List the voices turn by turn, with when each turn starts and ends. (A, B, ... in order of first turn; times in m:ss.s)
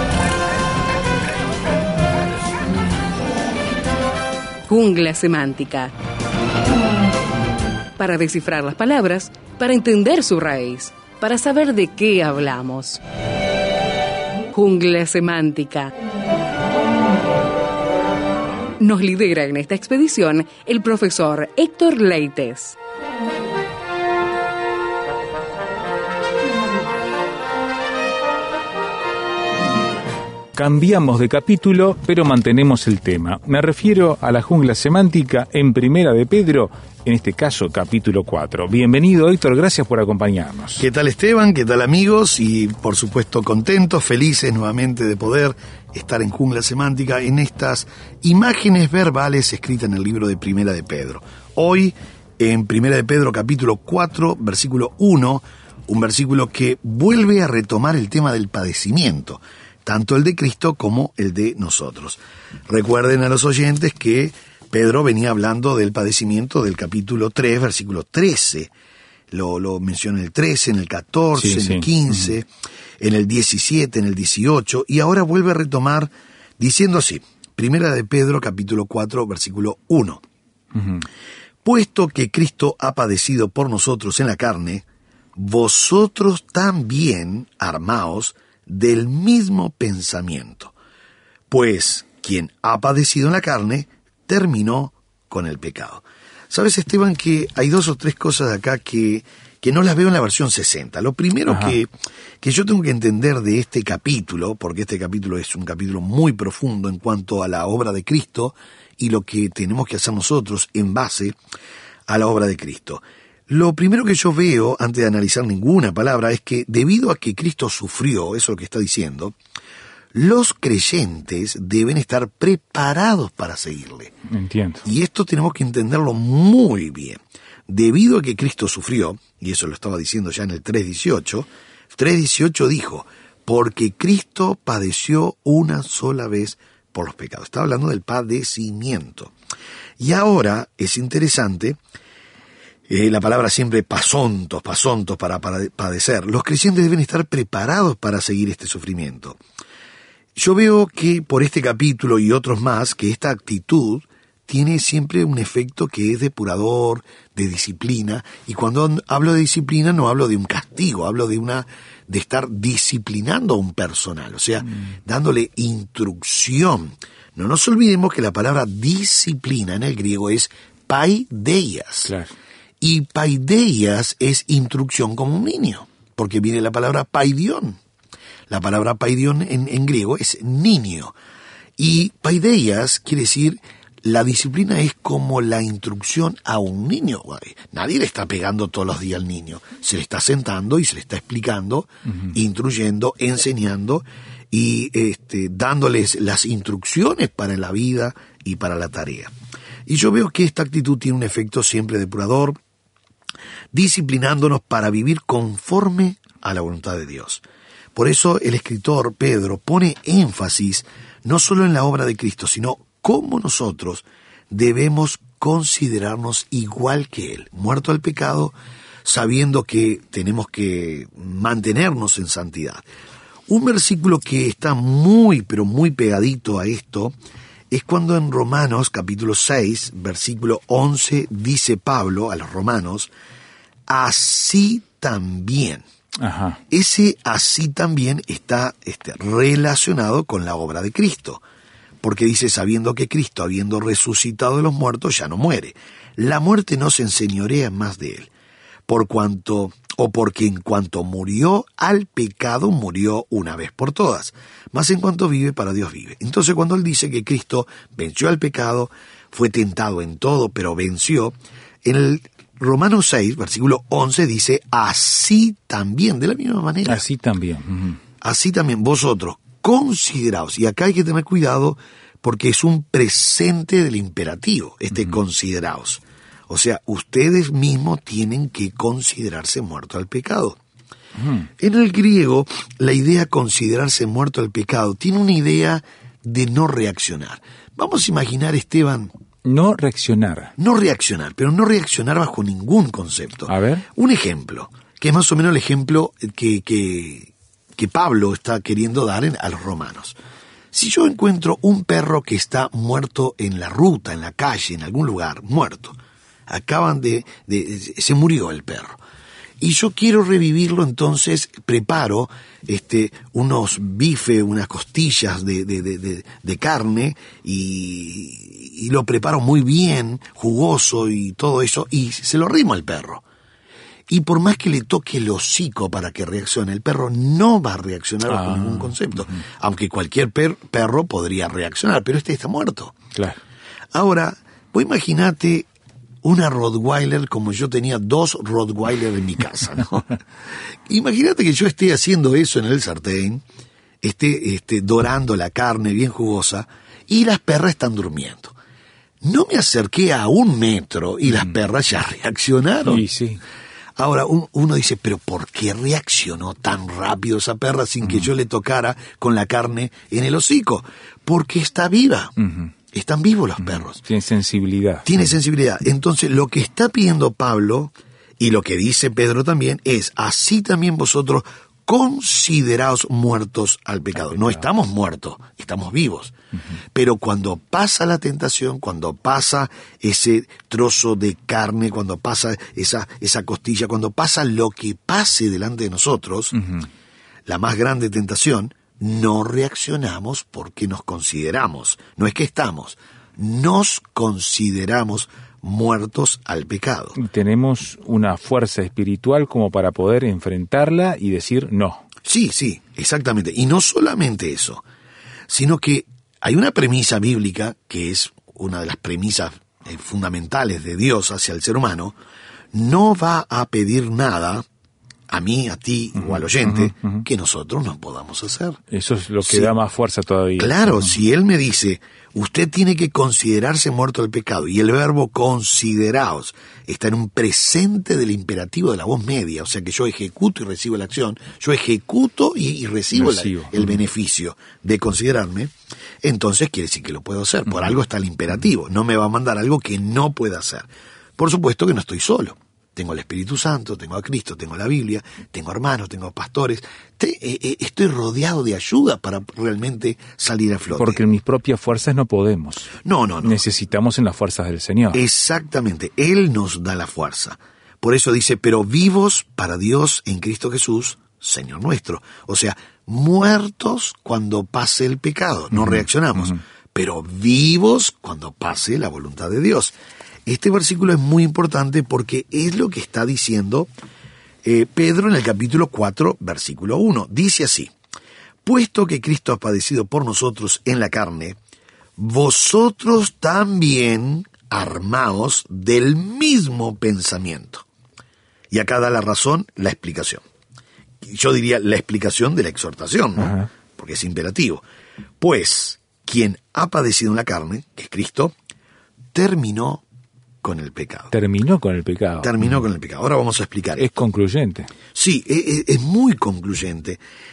0:04.7-0:05.9 A
0:08.0-0:13.0 A
0:14.5-0:15.9 A
0:18.8-0:22.8 A
0:30.5-0:40.8 B
0:40.8-1:08.7 C
1:09.3-1:12.5 C
1:11.4-1:12.3 B
1:13.0-1:20.2 C
1:20.7-1:21.0 B
1:21.6-1:24.8 C
1:25.4-1:30.7 C
1:31.5-1:41.9 C
1:41.5-1:41.8 B
1:42.4-1:51.4 C
1:52.1-1:59.4 C
2:00.1-2:04.1 C
2:04.3-2:04.8 B
2:04.8-2:19.3 C
2:20.0-2:21.8 C
2:22.9-2:29.4 C
2:30.4-2:52.1 C
2:52.0-2:52.3 B
2:52.8-2:57.8 C
2:58.5-3:01.1 C
3:01.8-3:19.3 C
3:19.9-3:22.6 C
3:23.7-3:27.4 C
3:27.9-3:42.8 C
3:43.5-3:47.1 C
3:47.7-3:53.1 C
3:53.9-3:55.8 C
3:56.2-3:56.6 B
3:56.7-4:01.4 C
4:02.0-4:08.3 C
4:08.9-4:27.0 C
4:26.8-4:28.0 B
4:28.2-4:40.6 C
4:41.2-4:41.5 B
4:41.6-4:49.1 C
4:49.4-4:50.5 B
4:50.6-5:00.2 C
4:53.5-4:53.8 B
5:00.7-5:09.0 C
5:09.6-5:23.2 C
5:24.1-5:33.0 C
5:28.3-5:29.4 B
5:33.9-5:35.7 C
5:36.2-5:40.2 C
5:40.9-5:43.4 C
5:44.0-5:48.5 C
5:49.2-5:53.0 C
5:52.8-5:53.4 B
5:54.0-6:02.3 C
5:58.0-5:58.3 B
6:02.4-6:02.7 B
6:02.9-6:04.0 C
6:03.6-6:05.3 B
6:05.0-6:16.3 C
6:14.2-6:14.6 B
6:16.9-6:26.5 C
6:26.6-6:26.9 B
6:27.4-6:37.2 C
6:37.2-6:42.0 B
6:42.2-6:44.8 C
6:45.5-6:52.2 C
6:52.7-6:54.6 C
6:55.3-6:58.8 C
6:56.2-6:57.2 B
6:58.9-7:01.1 B
6:59.4-6:59.7 C
7:00.6-7:31.2 C
7:13.1-7:14.0 B
7:31.0-7:35.2 B
7:33.0-7:33.6 C
7:35.1-7:49.9 C
7:45.7-7:46.5 B
7:50.4-7:53.9 C
7:54.6-7:57.9 C
7:58.6-8:01.6 C
8:02.2-8:07.8 C
8:08.7-8:10.4 C
8:11.2-8:14.8 C
8:13.4-8:13.7 B
8:15.4-8:18.5 C
8:19.3-8:20.0 C
8:20.6-8:21.3 C
8:21.3-8:22.6 B
8:22.4-8:24.0 C
8:24.0-8:24.9 B
8:25.1-8:27.2 C